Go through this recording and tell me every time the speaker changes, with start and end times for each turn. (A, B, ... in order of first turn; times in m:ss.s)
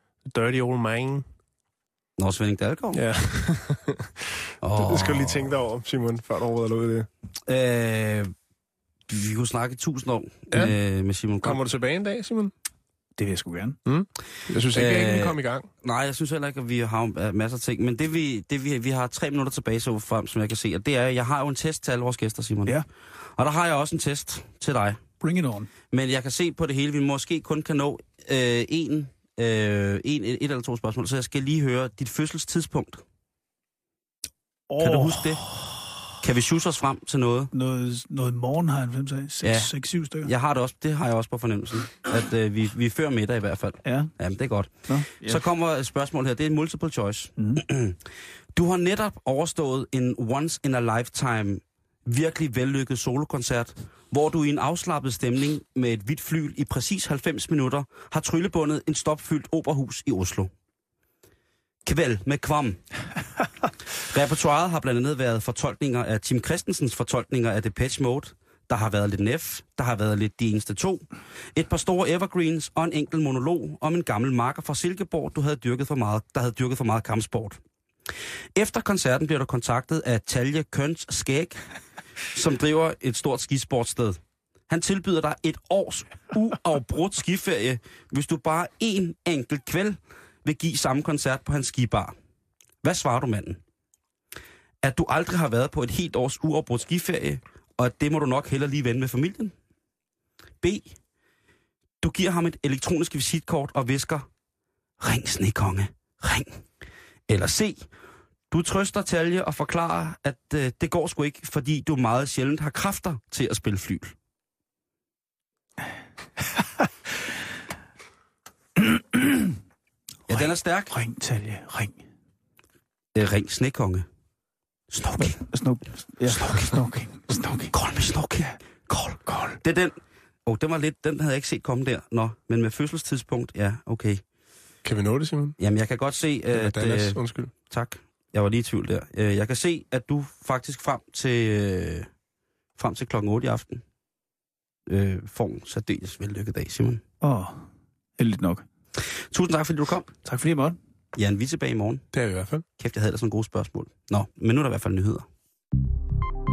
0:00.2-0:01.2 A
0:02.2-0:03.0 B
0:02.9-0:07.1 A
0:04.6-0:05.6 B
0:07.5-0:08.3 B
0:09.1-0:11.6 B
0:11.4-0:12.5 A
0:13.2-0:13.8 C
0:13.8-0:15.7 A
0:14.7-0:25.0 B
0:25.2-0:25.7 C
0:25.9-0:33.0 B
0:34.7-0:35.8 C
0:34.8-0:35.4 B
0:36.2-0:37.5 B
0:37.5-0:40.3 C
0:39.4-1:00.5 B
0:43.8-0:44.1 C
0:44.8-0:45.4 C
0:47.4-0:47.6 C
1:01.8-1:02.8 B
1:04.0-1:17.6 B
1:18.5-1:21.6 B
1:22.3-1:32.1 B
1:32.8-1:33.6 B
1:34.8-1:39.5 B
1:40.6-1:41.0 B
1:42.0-1:44.3 B
1:45.0-1:46.6 B
1:47.3-1:47.9 B
1:48.5-1:54.1 B
1:56.4-1:56.9 C
1:58.8-1:59.5 C
2:00.3-2:00.9 B
2:00.3-2:02.0 C
2:03.1-2:04.1 B
2:04.9-2:05.4 B
2:05.2-2:07.8 C
2:06.3-2:06.8 B
2:07.7-2:14.2 B
2:09.2-2:09.6 C
2:14.8-2:15.6 A
2:15.6-2:22.1 B
2:16.5-2:17.5 A
2:22.8-2:23.8 B
2:24.9-2:27.0 B
2:27.2-2:28.6 C
2:29.0-2:30.1 B
2:30.2-2:30.8 C
2:31.1-2:32.1 B
2:32.1-2:32.6 A
2:32.8-2:35.3 B